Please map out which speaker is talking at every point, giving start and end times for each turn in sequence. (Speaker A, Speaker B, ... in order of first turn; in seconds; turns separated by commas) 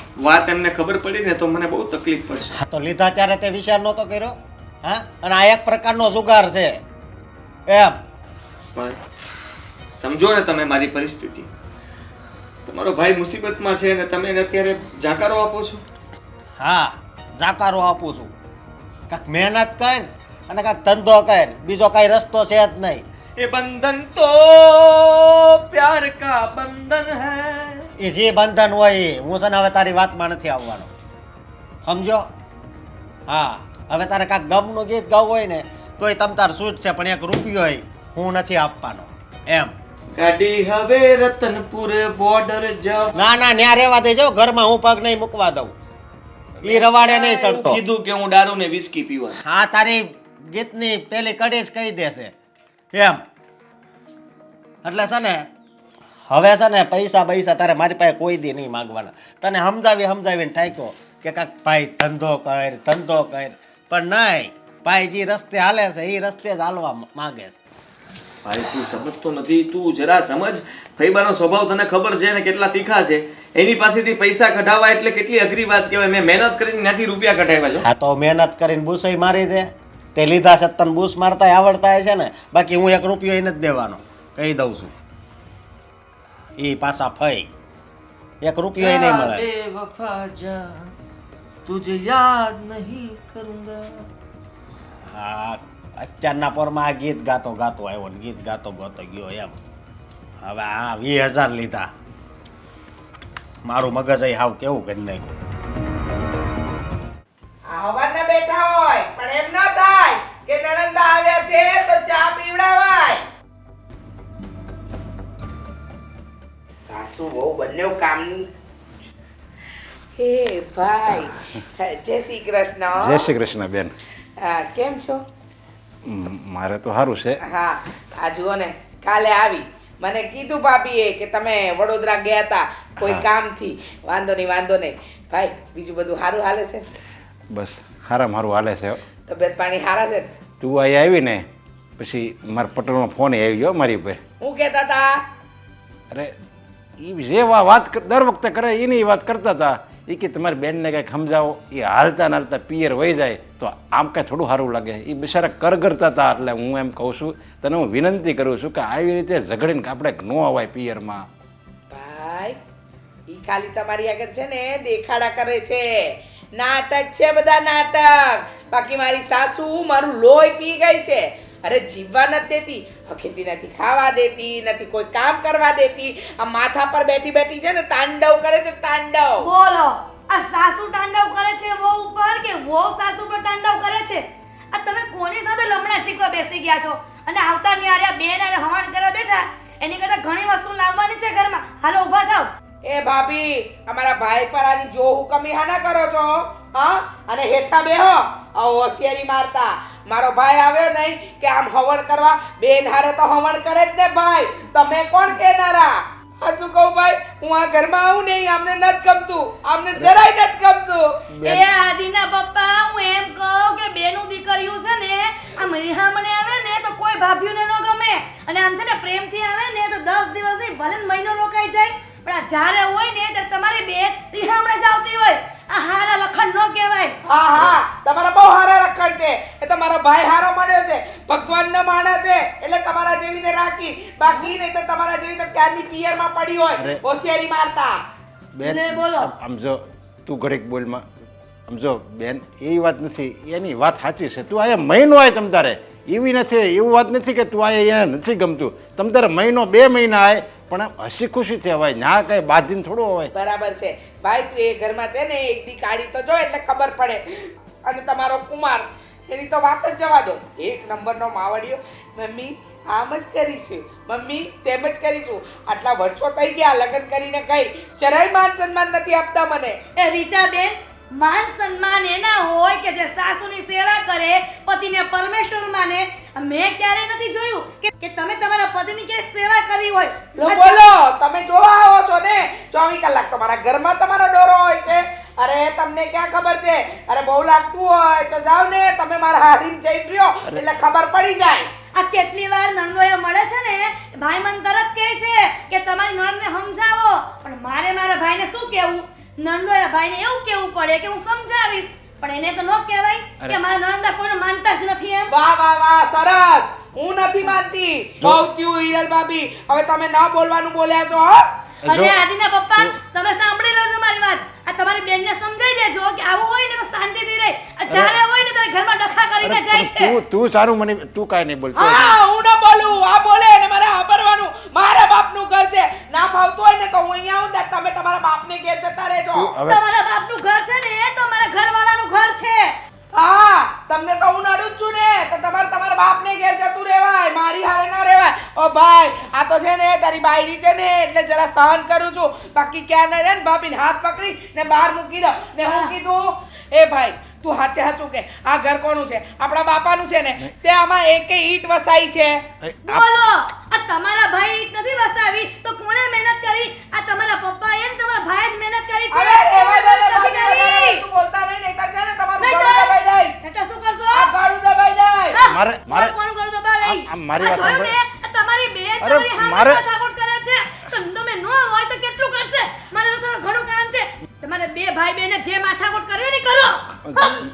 Speaker A: 0.2-2.5, Speaker B: 2.5-6.8, Speaker B: 7.7-8.0, Speaker A: 10.0-11.5, Speaker A: 12.7-15.8, Speaker B: 16.6-18.3, Speaker B: 19.1-23.0, Speaker A: 23.4-27.9, Speaker B: 28.0-30.9, Speaker B: 31.8-32.3, Speaker B: 33.3-39.7, Speaker A: 40.1-43.2, Speaker B: 43.1-45.7, Speaker A: 46.6-49.4, Speaker B: 46.6-47.8, Speaker B: 49.4-52.3, Speaker B: 52.9-53.2, Speaker B: 54.8-55.5, Speaker B: 56.3-67.6, Speaker A: 68.4-77.8, Speaker B: 77.8-84.9, Speaker B: 86.6-87.5, Speaker B: 88.4-89.5, Speaker A: 88.8-90.9, Speaker A: 91.6-94.1, Speaker B: 95.1-99.5, Speaker B: 100.4-101.9, Speaker B: 103.6-105.3, Speaker C: 107.7-113.2, Speaker C: 116.8-118.5, Speaker C: 120.2-123.3, Speaker D: 122.9-123.9, Speaker C: 124.4-125.2, Speaker D: 126.1-127.4, Speaker C: 127.4-136.8, Speaker D: 133.0-133.2, Speaker D: 137.5-139.0, Speaker C: 139.3-140.3, Speaker D: 140.6-141.4, Speaker D: 142.0-144.2, Speaker C: 144.4-145.1, Speaker D: 147.0-161.2, Speaker C: 161.9-162.6, Speaker C: 163.3-165.8, Speaker C: 166.6-179.5, Speaker E: 179.4-192.5, Speaker C: 192.8-211.1, Speaker E: 211.4-227.1, Speaker C: 227.2-237.9, Speaker E: 234.2-234.5, Speaker D: 238.5-241.0, Speaker E: 238.6-239.3, Speaker D: 241.7-253.3, Speaker C: 253.3-269.8, Speaker E: 269.9-280.9, Speaker C: 280.4-291.7, Speaker E: 291.9-305.3, Speaker C: 305.3-311.4, Speaker D: 308.2-308.5, Speaker E: 311.9-320.2, Speaker D: 311.9-312.2, Speaker D: 317.9-318.2, Speaker D: 319.4-322.2, Speaker C: 321.7-329.6, Speaker D: 329.3-329.8, Speaker E: 329.6-332.7, Speaker C: 333.1-352.4, Speaker E: 345.6-345.9, Speaker D: 352.6-353.1, Speaker E: 352.8-361.0, Speaker C: 359.1-363.4, Speaker E: 362.4-364.3, Speaker C: 364.1-365.4, Speaker E: 365.3-377.4, Speaker D: 365.5-366.1, Speaker D: 366.8-367.9, Speaker D: 369.0-369.8, Speaker D: 377.1-377.4